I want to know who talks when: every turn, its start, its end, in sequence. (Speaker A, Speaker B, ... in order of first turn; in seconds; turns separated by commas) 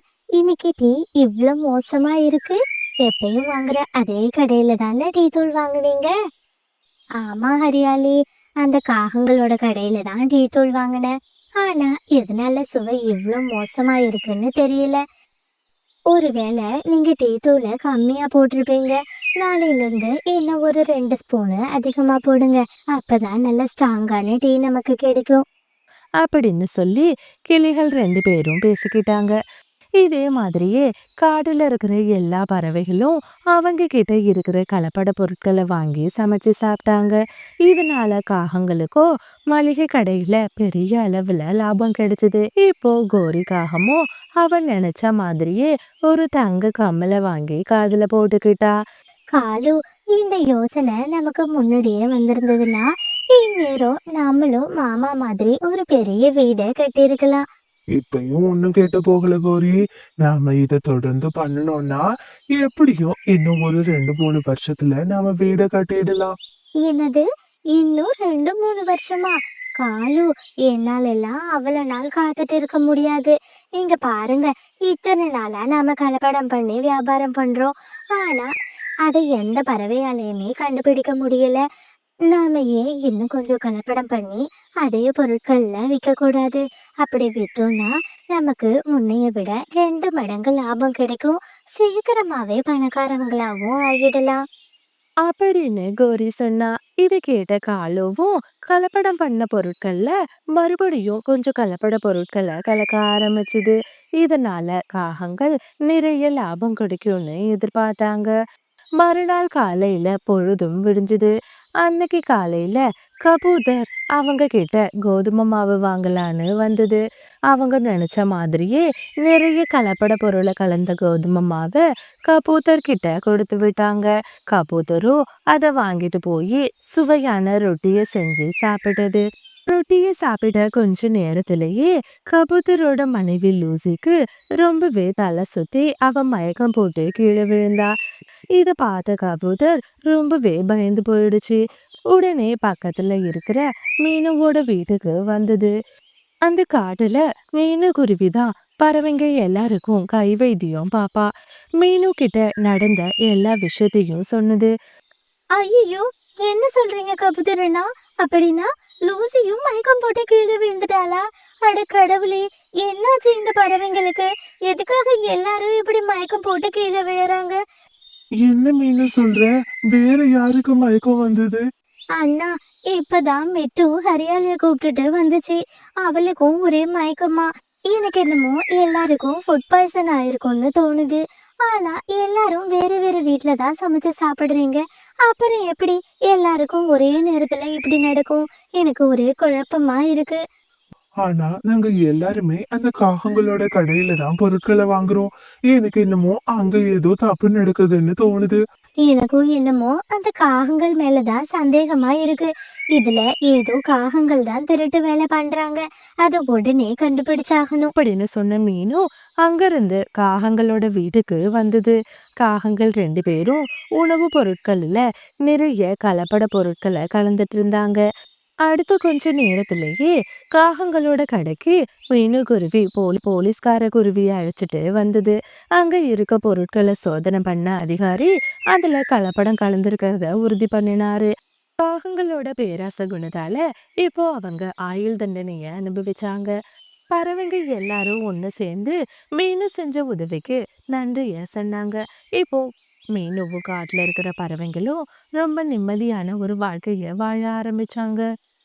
Speaker A: 0.4-6.1, Speaker A: 7.2-15.0, Speaker A: 16.1-25.4, Speaker B: 26.2-29.3, Speaker B: 30.0-48.7, Speaker A: 49.3-57.4, Speaker C: 57.9-66.3, Speaker A: 66.8-78.5, Speaker A: 79.0-81.6, Speaker A: 82.3-94.4, Speaker B: 95.2-108.3, Speaker B: 109.0-111.3, Speaker B: 111.8-137.9, Speaker B: 138.6-145.7, Speaker B: 146.5-151.3, Speaker B: 151.8-154.7, Speaker A: 155.6-167.6, Speaker C: 168.4-171.6, Speaker A: 172.2-190.4, Speaker C: 191.2-198.6, Speaker A: 199.0-207.9, Speaker B: 208.0-218.0, Speaker B: 218.7-231.3, Speaker B: 231.8-236.5, Speaker B: 237.1-242.6, Speaker B: 243.1-248.2